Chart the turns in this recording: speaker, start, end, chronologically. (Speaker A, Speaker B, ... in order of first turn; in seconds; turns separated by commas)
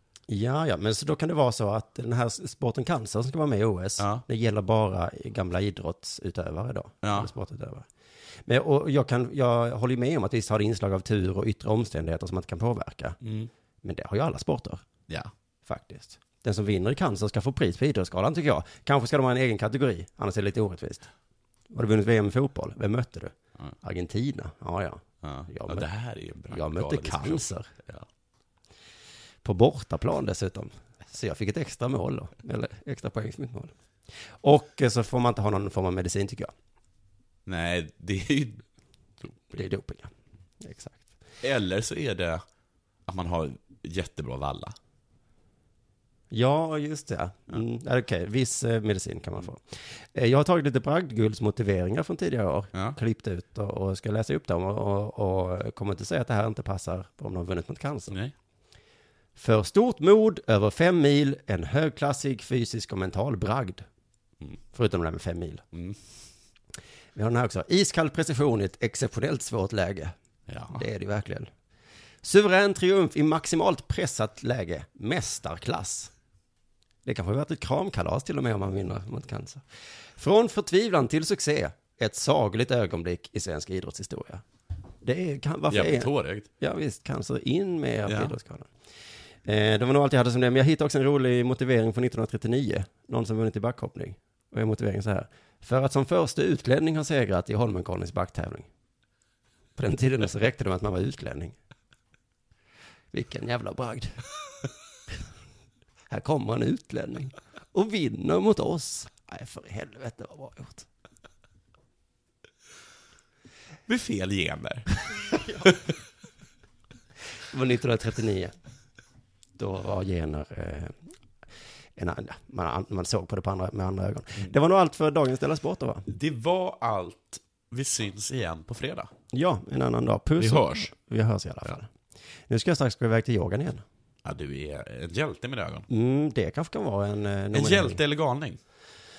Speaker A: 0.3-7.9, Speaker B: 4.0-4.2, Speaker B: 7.0-7.3, Speaker A: 8.4-13.2, Speaker B: 13.2-13.5, Speaker A: 13.8-14.8, Speaker A: 15.6-21.1, Speaker A: 21.7-25.9, Speaker B: 25.2-28.1, Speaker A: 26.5-27.7, Speaker A: 29.4-36.5, Speaker B: 37.5-38.6, Speaker B: 39.2-39.5, Speaker A: 39.5-41.0, Speaker B: 41.4-42.4, Speaker B: 43.1-44.8, Speaker A: 46.3-58.2, Speaker A: 59.4-63.9, Speaker A: 64.7-65.6, Speaker B: 65.7-66.0, Speaker A: 67.1-70.1, Speaker B: 70.5-70.8, Speaker A: 70.7-71.5, Speaker A: 72.2-76.1, Speaker A: 77.0-79.6, Speaker A: 80.2-84.4, Speaker A: 85.0-88.7, Speaker B: 85.7-86.5, Speaker B: 88.1-88.3, Speaker A: 89.4-98.7, Speaker A: 99.8-101.6, Speaker A: 103.1-104.2, Speaker A: 106.1-110.9, Speaker B: 113.9-115.9, Speaker A: 115.3-115.6, Speaker A: 117.5-118.5, Speaker A: 119.6-121.0, Speaker A: 122.0-126.1, Speaker B: 126.1-129.1, Speaker A: 129.3-131.9, Speaker B: 130.4-130.9, Speaker A: 132.5-133.8, Speaker B: 134.2-135.8, Speaker A: 135.9-138.0, Speaker B: 137.5-138.6